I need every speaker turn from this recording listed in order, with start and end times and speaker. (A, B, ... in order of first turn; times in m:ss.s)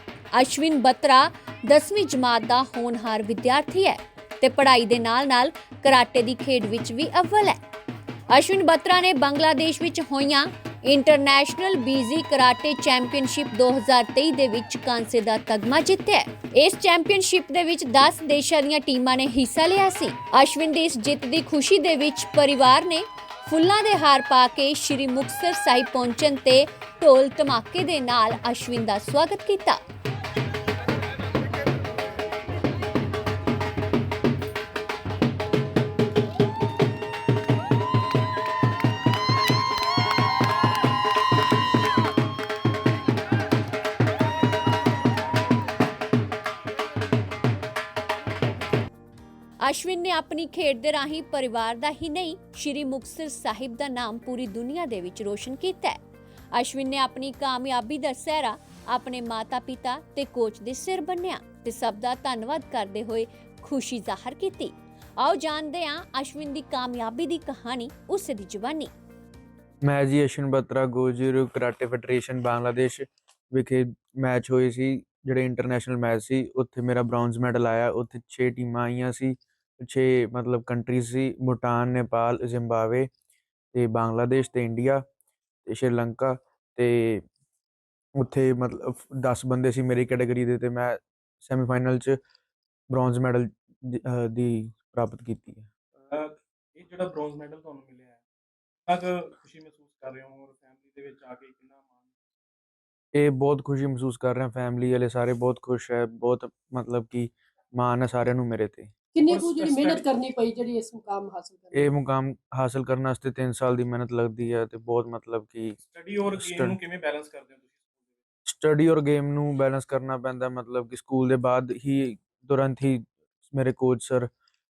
0:00.3-0:07.6 A
0:08.3-0:29.8 A
0:49.6-0:56.0 A
0:56.5-1:08.9 A
1:09.8-1:23.1 B
1:23.7-1:25.0 B
1:25.6-1:27.2 B
1:28.2-1:32.2 B
1:32.9-1:35.7 B
1:36.8-1:38.2 C
1:38.9-1:42.0 C
1:43.1-1:48.9 B
1:49.1-1:52.0 D
1:49.2-1:49.9 C
1:51.7-1:55.8 B
1:55.9-1:57.8 C
1:56.3-1:56.8 B
1:58.4-2:04.3 B